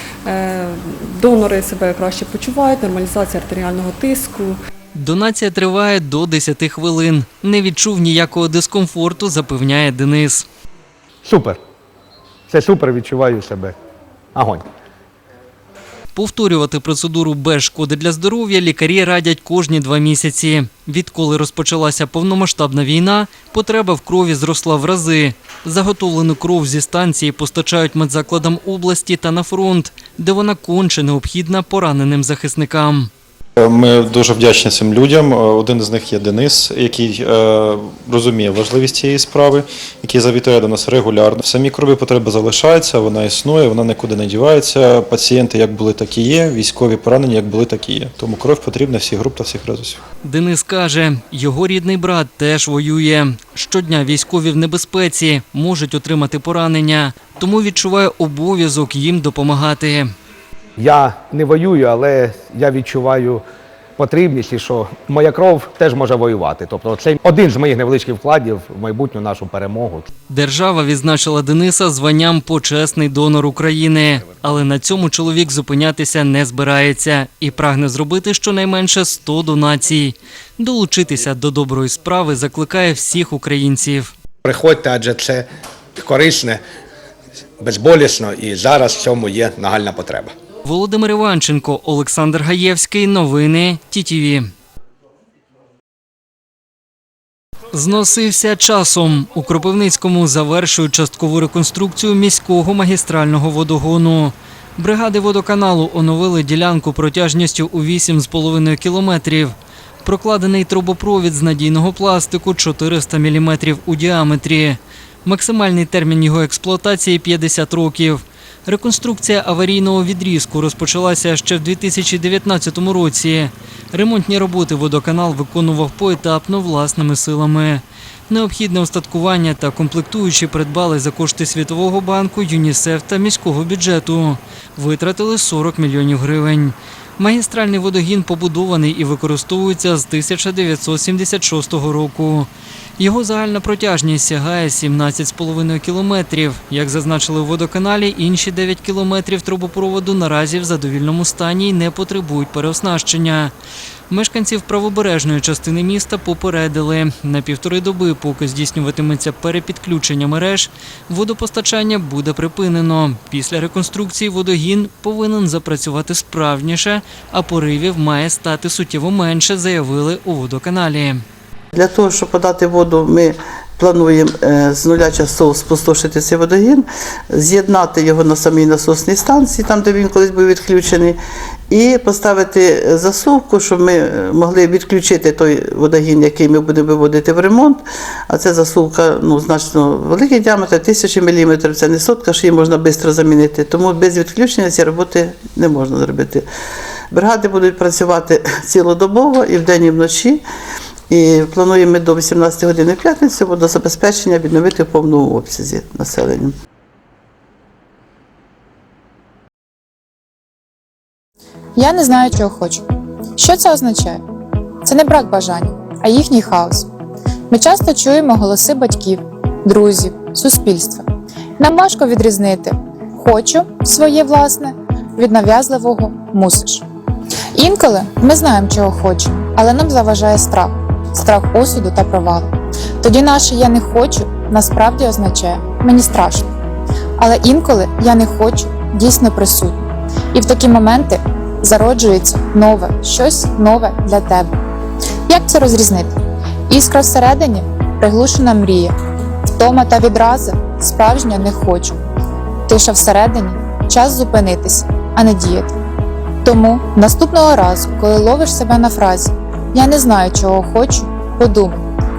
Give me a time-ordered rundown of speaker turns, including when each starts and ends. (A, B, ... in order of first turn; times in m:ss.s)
0:00.2-0:04.6 A
0:04.9-0:10.5 B
0:11.2-0:11.6 C
0:12.5-0:13.8 C
0:14.3-0:14.6 C
0:16.2-0:33.1 B
0:33.6-0:50.0 D
0:50.2-1:00.1 B
1:00.8-1:03.4 C
1:04.0-1:10.1 C
1:10.3-1:24.1 B
1:24.4-1:26.6 C
1:27.6-1:30.3 C
1:30.6-1:34.5 B
1:37.7-2:33.5 B
2:34.1-2:51.2 B
2:51.7-3:01.2 E
3:01.7-3:16.4 E
3:17.1-3:20.4 E
3:21.1-3:26.6 E
3:31.8-3:32.8 F
3:33.4-3:34.2 F
3:34.8-3:36.9 F
3:37.5-3:41.0 F
3:41.6-3:46.8 F
3:47.6-3:56.5 F
3:57.2-4:04.5 F
4:05.3-4:06.1 F
4:06.7-4:08.9 F
4:09.6-4:11.9 F
4:12.7-4:15.7 F
4:16.4-4:21.8 F